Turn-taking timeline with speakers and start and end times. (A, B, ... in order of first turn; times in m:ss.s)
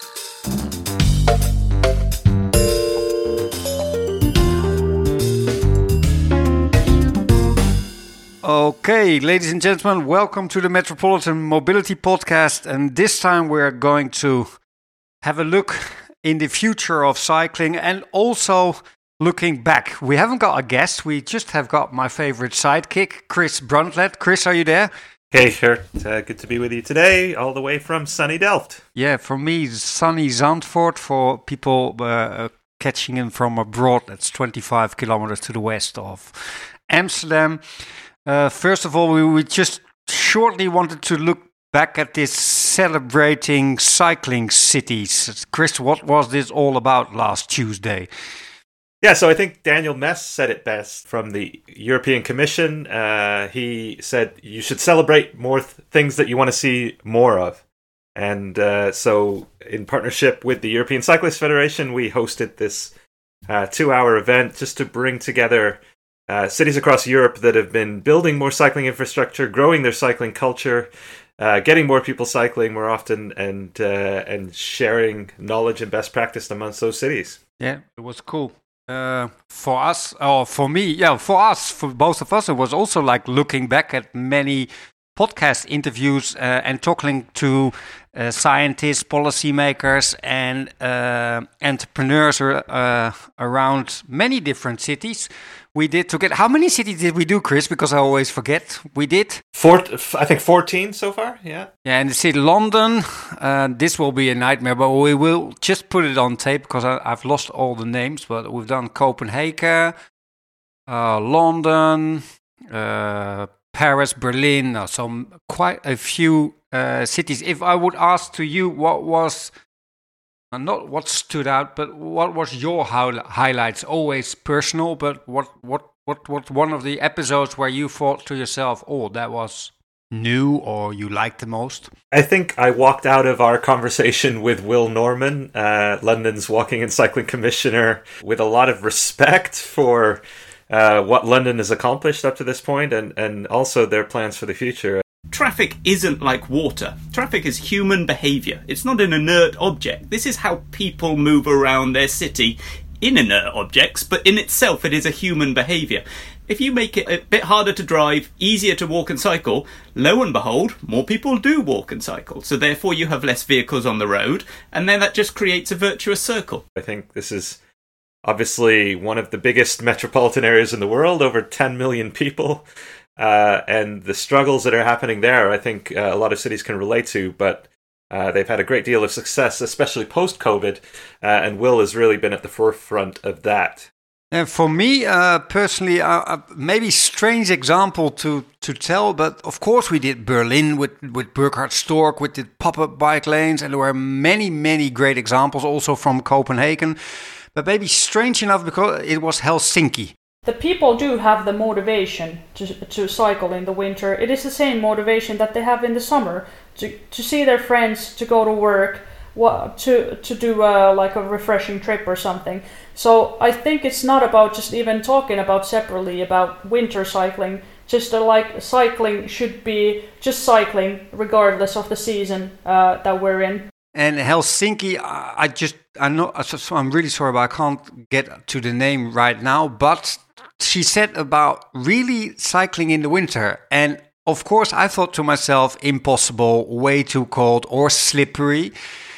0:08.4-0:14.5 A
0:15.2-0:24.9 A
0:25.3-0:28.8 B
0:29.0-0:37.6 A
0:38.2-0:48.1 A
0:49.0-0:57.6 B
0:58.2-1:02.9 B
1:03.5-1:17.4 B
1:17.6-1:39.4 A
1:39.6-1:41.7 B
1:41.8-1:49.9 A
1:50.9-1:59.5 A
2:00.5-2:11.9 A
2:12.1-2:25.0 B
2:25.3-2:46.6 C
2:46.8-2:47.6 B
2:48.2-2:52.6 B
2:53.2-3:03.9 B
3:04.3-3:17.0 A
3:17.5-3:20.1 A
3:20.4-3:43.7 D
3:43.9-3:58.7 A